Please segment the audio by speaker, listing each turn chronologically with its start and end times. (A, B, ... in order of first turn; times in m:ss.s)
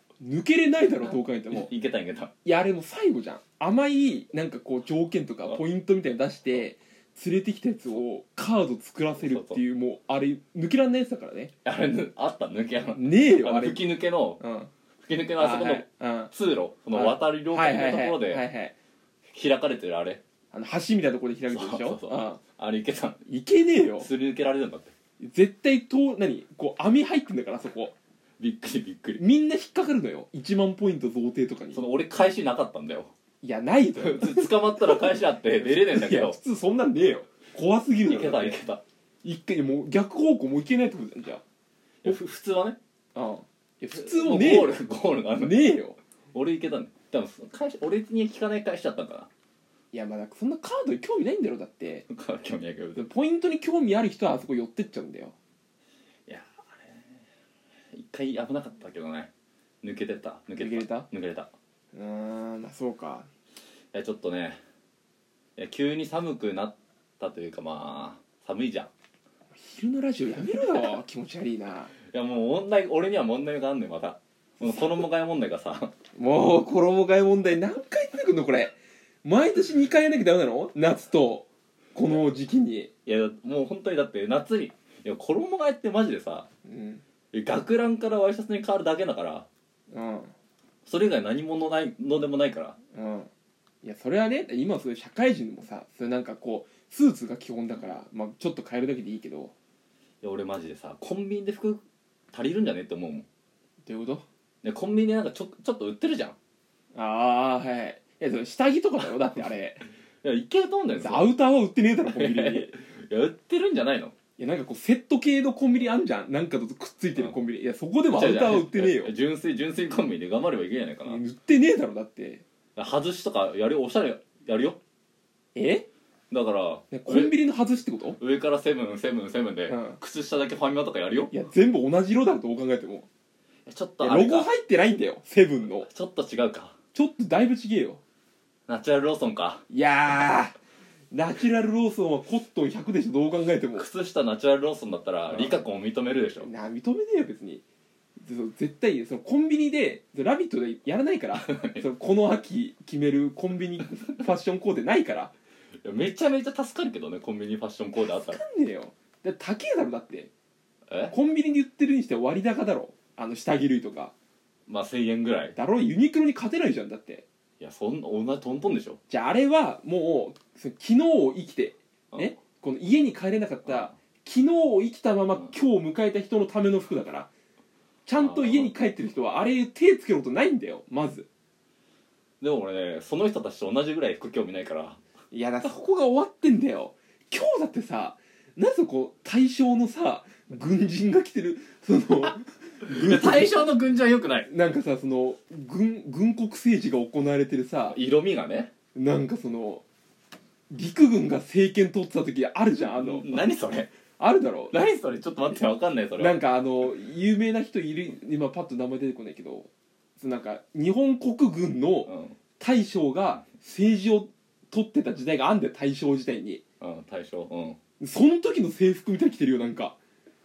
0:00.2-0:01.7 A
0:01.0-0:02.3 B
0:02.4-0:11.5 A
0:09.2-0:09.6 B
0:11.6-0:14.4 B
0:12.9-0:13.8 A
0:14.4-0:14.7 A
0:15.0-0:18.4 B
0:15.4-0:16.3 A
0:16.9-0:18.8 A
0:19.3-0:20.2 B
0:20.5-0:22.4 A
0:21.5-0:23.2 B
0:23.2-0:24.1 A
0:24.0-0:24.9 B
0:25.2-0:27.9 A
0:28.4-0:29.2 B
0:29.2-0:31.9 A
0:31.7-0:33.1 B
0:33.4-0:38.6 A
0:34.0-0:36.4 B
0:38.0-0:38.8 B
0:39.2-0:41.4 A
0:42.0-0:42.8 B
0:43.1-0:44.8 A
0:43.9-0:45.7 B
0:45.4-0:46.0 A
0:46.3-0:49.3 B
0:49.9-0:52.1 A
0:52.1-0:53.0 B
0:53.0-0:55.3 A
0:56.3-0:57.1 B
0:57.9-0:59.3 B
0:59.8-1:01.5 B
1:00.6-1:01.1 A
1:01.9-1:03.3 A
1:03.9-1:04.6 B
1:05.6-1:08.9 B
1:09.5-1:11.9 A
1:12.1-1:15.9 B
1:14.6-1:15.0 A
1:16.2-1:22.9 A
1:23.0-1:26.5 B
1:26.6-1:27.0 A
1:27.3-1:29.5 B
1:29.9-1:30.3 A
1:30.8-1:32.8 B
1:32.9-1:33.3 A
1:33.8-1:39.5 A
1:40.2-1:43.2 B
1:43.8-1:44.2 A
1:44.6-1:46.4 B
1:46.9-1:49.8 A
1:50.2-1:51.3 B
1:51.0-1:52.7 A
1:52.0-1:54.1 B
1:54.4-1:59.1 A
1:58.1-2:01.2 B
2:01.0-2:02.4 A
2:02.8-2:04.8 B
2:05.5-2:05.8 A
2:06.3-2:07.3 B
2:06.9-2:08.2 A
2:08.2-2:11.3 B
2:09.7-2:10.0 A
2:11.3-2:13.1 A
2:13.6-2:14.5 B
2:14.0-2:15.9 A
2:15.7-2:16.7 B
2:16.9-2:18.0 A
2:18.7-2:19.6 B
2:19.7-2:20.5 A
2:21.1-2:23.9 A
2:23.7-2:26.5 B
2:26.4-2:27.6 A
2:28.2-2:35.3 A
2:31.3-2:31.8 B
2:35.8-2:38.4 B
2:38.0-2:40.3 A
2:40.9-2:41.1 B
2:41.1-2:44.1 A
2:44.7-2:45.5 B
2:45.5-2:47.2 A
2:47.6-2:49.0 B
2:49.1-2:57.3 A
2:58.0-3:01.3 A
2:58.2-2:58.7 B
3:02.4-3:05.0 B
3:05.3-3:13.7 A
3:12.8-3:14.5 B
3:14.5-3:18.0 A
3:17.9-3:18.7 B
3:18.9-3:19.8 A
3:20.7-3:23.4 A
3:23.0-3:23.9 B
3:24.2-3:24.7 A
3:24.7-3:26.4 B
3:26.2-3:36.6 A
3:32.0-3:32.4 B
3:36.8-3:37.8 B
3:38.0-3:40.0 A